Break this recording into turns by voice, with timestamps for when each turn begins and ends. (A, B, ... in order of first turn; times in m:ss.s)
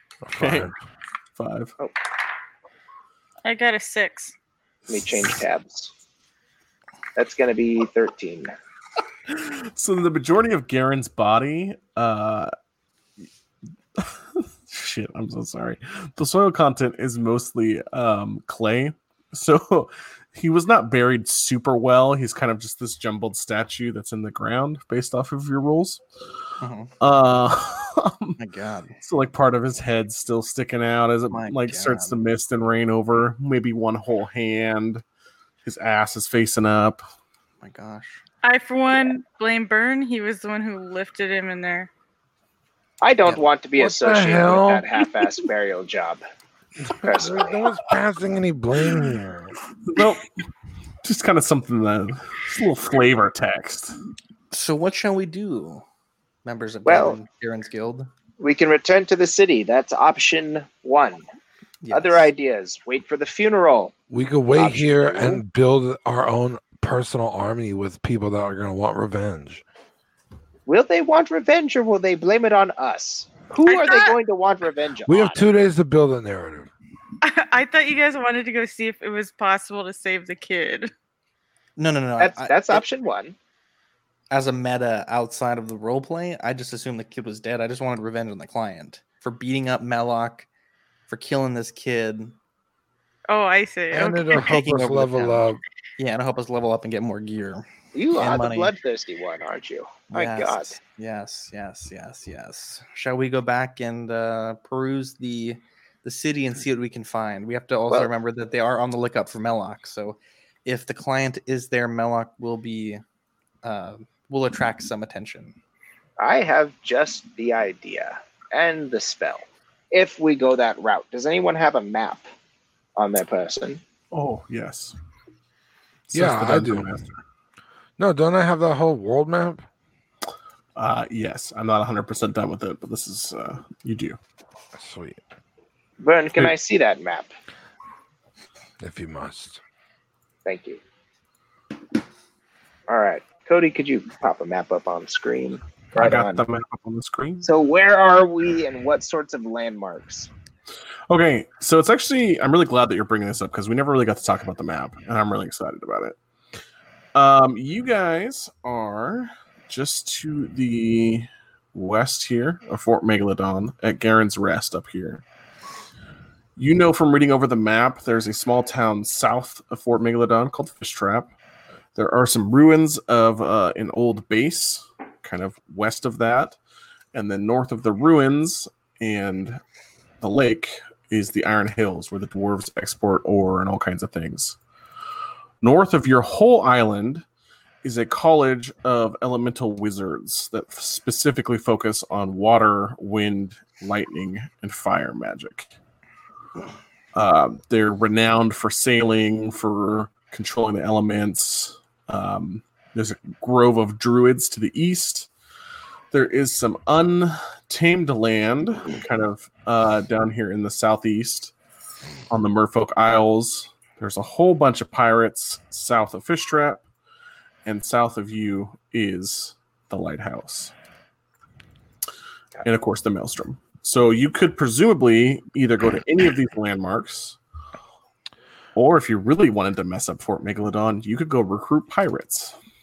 0:00.2-0:00.8 A
0:00.4-0:00.7 B
0:01.4-0:01.7 B
0:03.4-0:04.3 C
0:04.9-0:05.9 D
0:07.2-0:08.5 D
0:09.3-0:12.5 B
0:14.0-0:26.0 B
0:26.6-0:26.9 E
0:27.0-0:28.4 B
0:28.4-0:28.9 E
0:29.0-0:35.0 B
0:31.3-0:32.2 E
0:35.6-0:37.0 B
0:37.6-0:38.2 E
0:38.4-0:41.9 C
0:43.0-0:46.2 D
0:43.8-0:44.8 A
0:46.8-0:49.5 A
0:47.0-0:47.6 D
0:49.9-0:50.3 B
0:51.0-0:54.0 B
0:54.5-0:55.8 E
0:56.4-0:58.1 E
0:56.8-0:57.2 D
0:58.4-1:01.2 D
1:01.8-1:02.3 E
1:01.9-1:03.9 D
1:04.1-1:09.6 A
1:04.6-1:05.4 D
1:10.7-1:15.4 D
1:13.6-1:14.2 C
1:15.0-1:16.7 A
1:17.2-1:20.9 C
1:21.8-1:22.8 E
1:22.2-1:23.4 D
1:24.3-1:30.5 E
1:31.1-1:32.3 E
1:33.3-1:34.4 C
1:33.9-1:35.6 A
1:34.3-1:35.4 E
1:36.0-1:38.7 E
1:37.9-1:40.8 D
1:40.1-1:53.0 E
1:53.6-1:55.6 E
1:56.2-2:02.3 D
2:03.0-2:03.8 D
2:04.1-2:04.9 B
2:06.1-2:07.2 B
2:06.1-2:06.9 A
2:08.0-2:09.6 A
2:10.8-2:14.2 B
2:14.7-2:15.2 A
2:16.0-2:17.3 D
2:18.8-2:19.6 A
2:20.4-2:20.8 D
2:22.9-2:26.4 D
2:26.0-2:27.4 B
2:27.4-2:30.3 D
2:31.1-2:36.2 B
2:37.1-2:45.2 B
2:46.6-2:51.3 B
2:51.9-2:56.6 B
2:57.1-2:59.6 B
3:00.2-3:04.6 B
3:05.6-3:07.2 B
3:07.8-3:15.7 B
3:17.1-3:25.3 B
3:26.1-3:31.5 B
3:32.3-3:36.8 B
3:37.6-3:40.7 B
3:42.6-3:47.4 B
3:48.7-3:52.5 B